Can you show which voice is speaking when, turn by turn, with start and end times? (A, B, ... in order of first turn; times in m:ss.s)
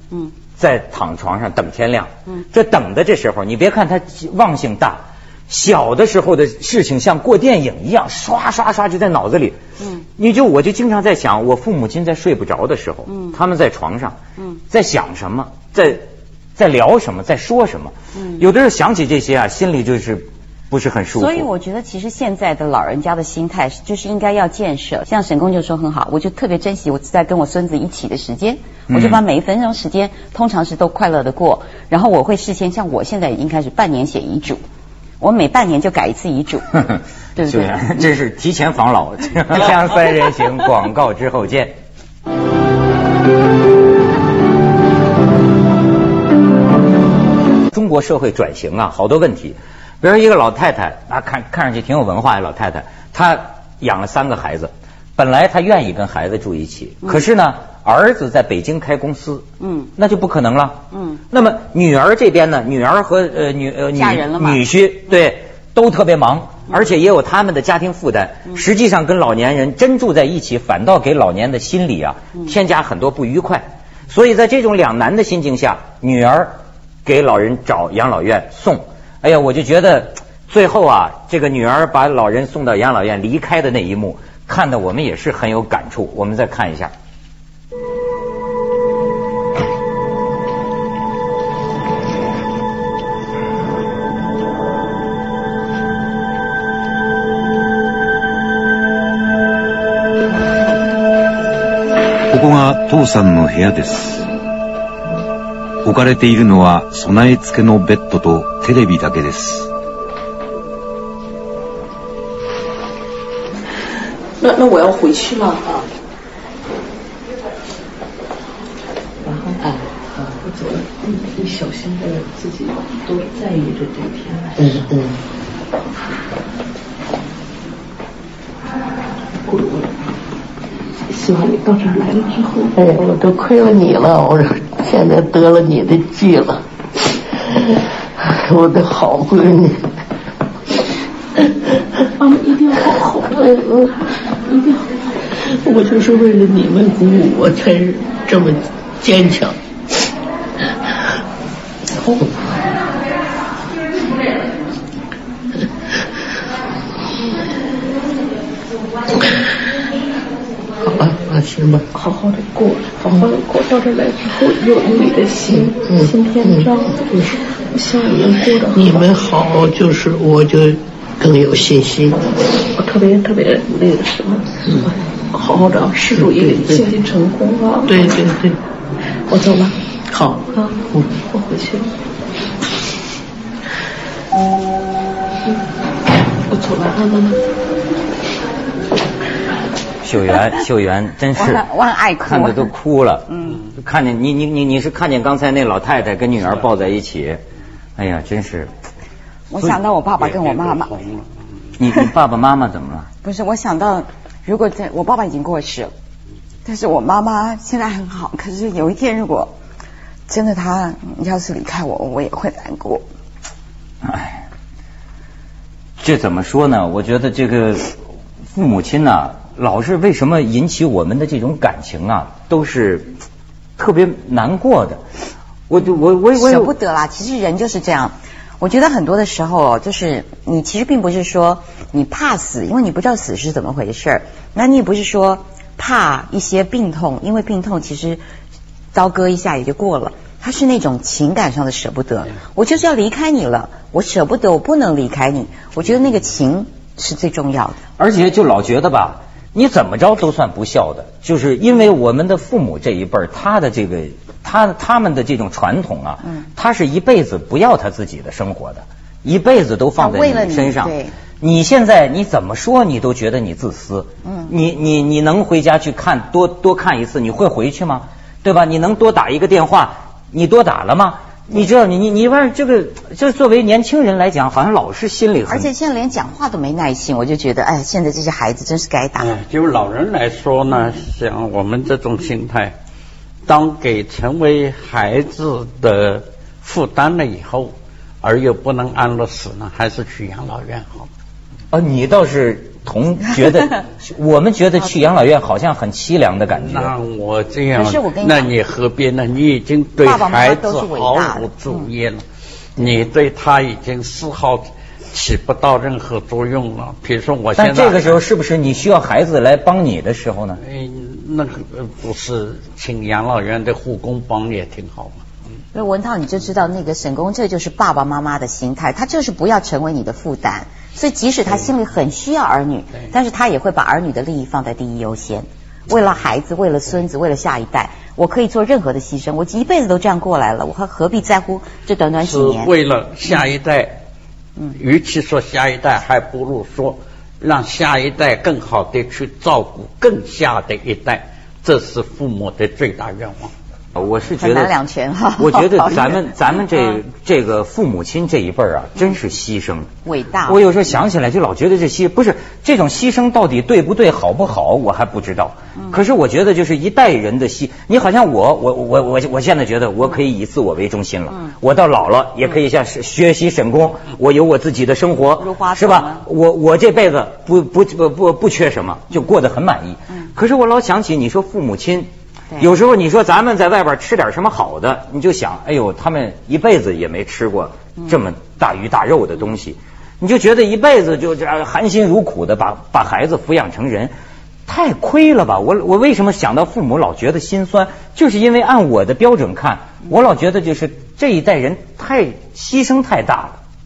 0:00.6-0:09.6 A
0:09.8-0:10.1 B
0:10.2-0:14.2 A
0:13.1-0:13.4 B
0:14.7-0:21.5 A
0:18.2-0:18.5 B
0:21.1-0:34.6 B
0:28.9-0:29.2 A
0:35.2-0:36.8 B
0:36.8-0:41.8 A
0:37.4-0:38.0 B
0:47.7-0:59.5 A
0:59.6-0:59.9 B
1:00.0-1:26.9 A
1:00.9-1:01.2 B
1:04.0-1:04.6 B
1:42.3-1:44.2 C
1:45.8-1:49.7 C
1:54.4-1:55.9 D
1:59.2-2:04.9 D
2:04.6-2:05.1 E
2:09.4-2:09.9 D
2:11.1-2:12.8 D
2:12.8-2:16.6 E
2:17.5-2:19.9 E
2:22.2-2:23.5 D
2:23.3-2:24.0 E
2:24.5-2:24.9 D
2:25.4-2:29.6 E
2:40.8-2:41.8 E
2:41.9-2:47.2 D
2:43.0-2:43.3 E
2:45.5-2:47.4 E
2:47.7-2:49.0 D
2:48.7-2:52.3 E
2:52.8-2:58.1 D
2:55.4-2:56.9 E
2:57.9-2:58.6 E
2:59.3-2:59.8 D
3:00.1-3:01.1 E
3:00.5-3:01.9 D
3:06.5-3:07.4 D
3:10.0-3:11.7 A
3:11.4-3:12.7 B
3:12.2-3:17.4 A
3:13.3-3:13.6 B
3:18.0-3:18.7 A
3:19.5-3:20.9 B
3:20.2-3:21.3 F
3:21.8-3:23.1 A
3:23.2-3:25.9 B
3:26.6-3:29.5 B
3:30.3-3:33.0 B
3:34.0-3:34.4 A
3:36.0-3:38.0 A
3:38.5-3:43.1 A
3:43.8-3:45.0 A
3:45.7-3:46.7 A
3:46.4-3:58.2 B
3:58.9-4:07.8 B
4:08.0-4:35.7 A
4:20.0-4:21.1 B
4:24.2-4:24.5 B
4:35.5-4:39.4 B
4:39.2-4:42.8 F
4:43.5-4:51.1 F
4:51.7-4:56.9 A
4:56.6-5:02.2 F
4:57.8-4:58.5 B
5:00.0-5:01.9 B
5:02.8-5:08.2 F
5:07.6-5:10.6 A
5:10.6-5:15.2 F
5:15.7-5:32.7 B
5:32.2-5:34.0 F
5:34.7-5:43.5 F
5:44.0-5:44.7 A
5:44.4-5:46.3 B
5:45.4-5:49.9 A
5:50.0-5:50.6 B
5:50.5-6:24.1 A
6:05.4-6:06.2 B
6:24.7-6:33.6 A